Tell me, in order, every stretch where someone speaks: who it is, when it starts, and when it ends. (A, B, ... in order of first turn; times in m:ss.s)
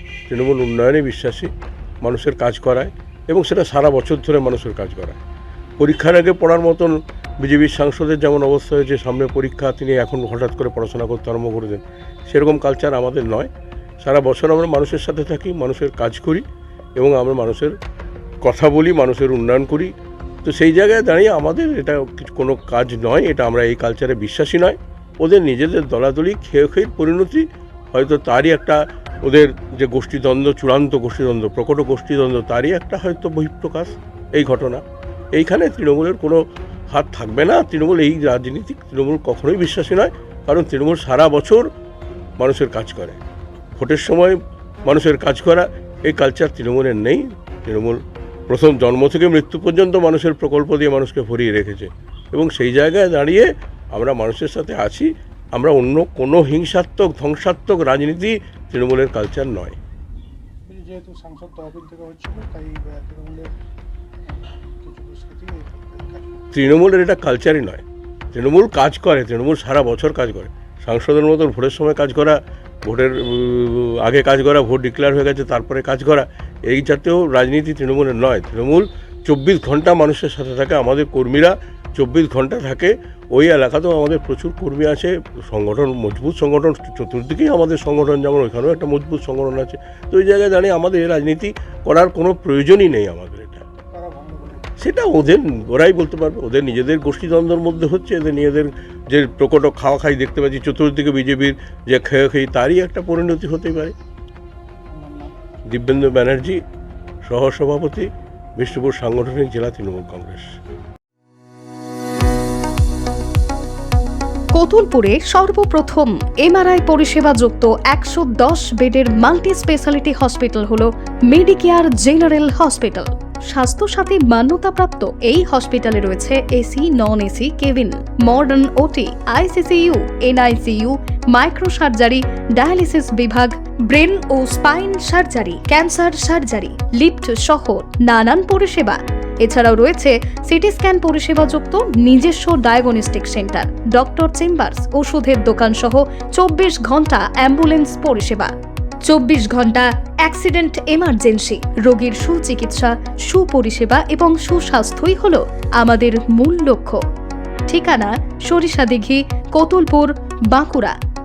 0:00.3-0:05.2 A
0:05.8-0:17.8 A
0:18.4-0:41.7 A
0:42.4-0:43.2 A
0:43.8-0:59.8 A
1:00.7-1:03.6 B
1:04.3-1:06.4 B
1:06.5-1:33.6 A
1:33.9-1:34.7 B
1:34.8-1:43.9 A
1:44.9-1:45.4 B
1:45.7-1:46.6 A
1:47.2-1:50.6 A
1:54.6-2:37.0 C
2:37.7-2:41.0 C